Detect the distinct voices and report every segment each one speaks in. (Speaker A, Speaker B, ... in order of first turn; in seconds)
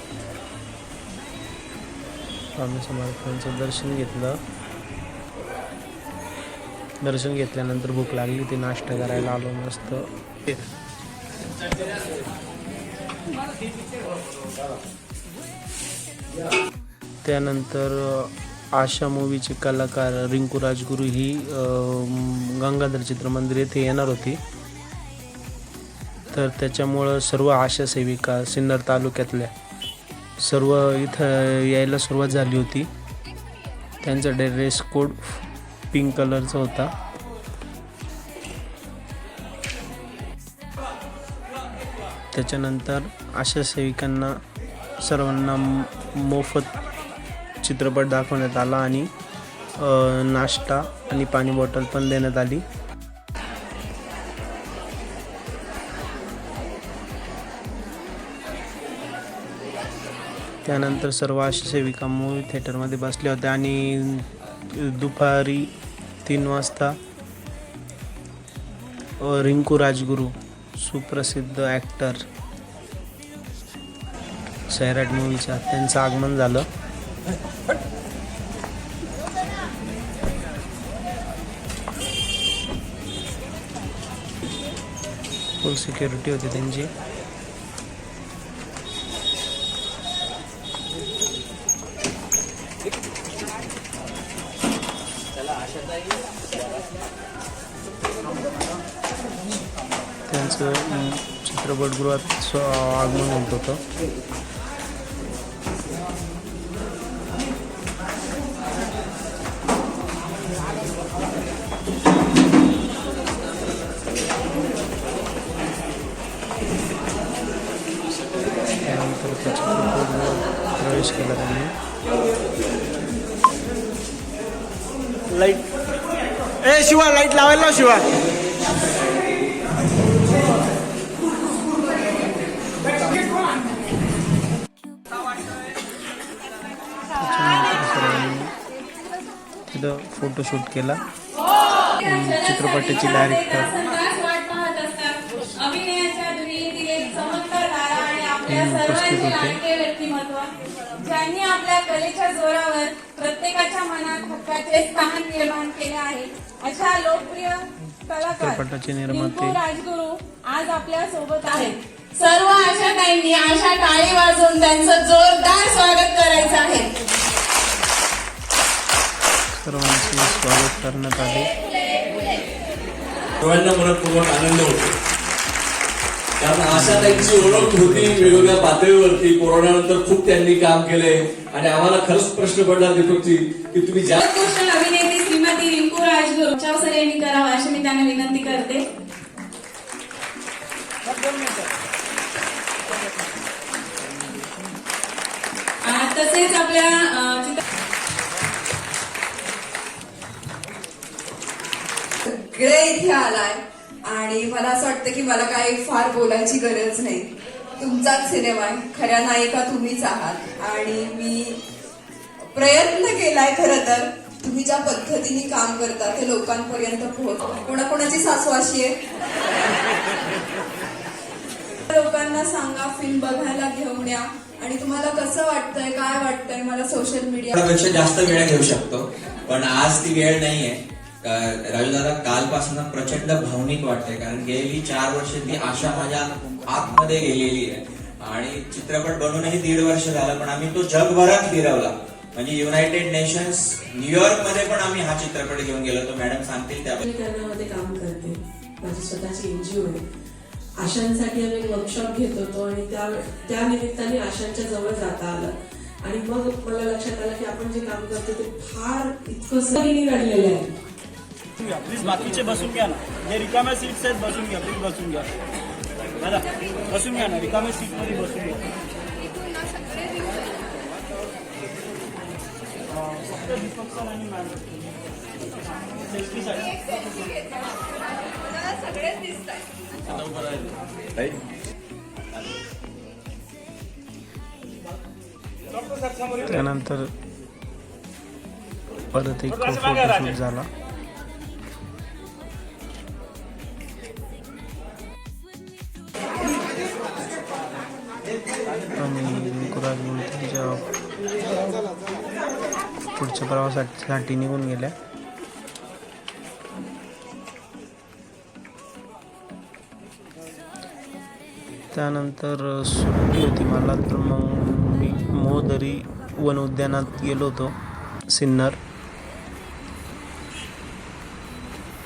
Speaker A: 2.6-4.4, 7.0-10.5, 17.2-24.4, 26.3-29.5, 30.4-32.9, 34.0-36.9, 42.3-44.3, 45.0-46.7, 47.6-49.1, 49.8-52.7, 60.7-65.7, 66.2-67.0, 69.2-72.2, 74.7-76.7, 85.6-86.9, 100.3-103.8, 118.9-121.7, 137.2-138.5, 139.7-141.0, 142.0-143.7, 148.5-149.6, 158.3-159.6, 169.6-171.5, 176.7-178.7, 286.4-287.1, 289.1-290.7, 299.0-300.9, 303.1-304.9, 311.9-317.8, 318.3-318.8
Speaker B: 125.3-125.7, 126.7-128.1, 261.6-265.3, 266.2-268.7, 273.5-274.6, 276.1-276.7
Speaker C: 142.0-166.9, 184.2-188.8, 195.8-197.6
Speaker D: 173.4-174.9, 176.4-184.2, 280.1-281.4
Speaker E: 202.2-211.6, 212.5-218.9, 221.9-228.0, 278.7-279.4
Speaker F: 227.6-247.0
Speaker G: 247.0-250.0, 250.8-260.8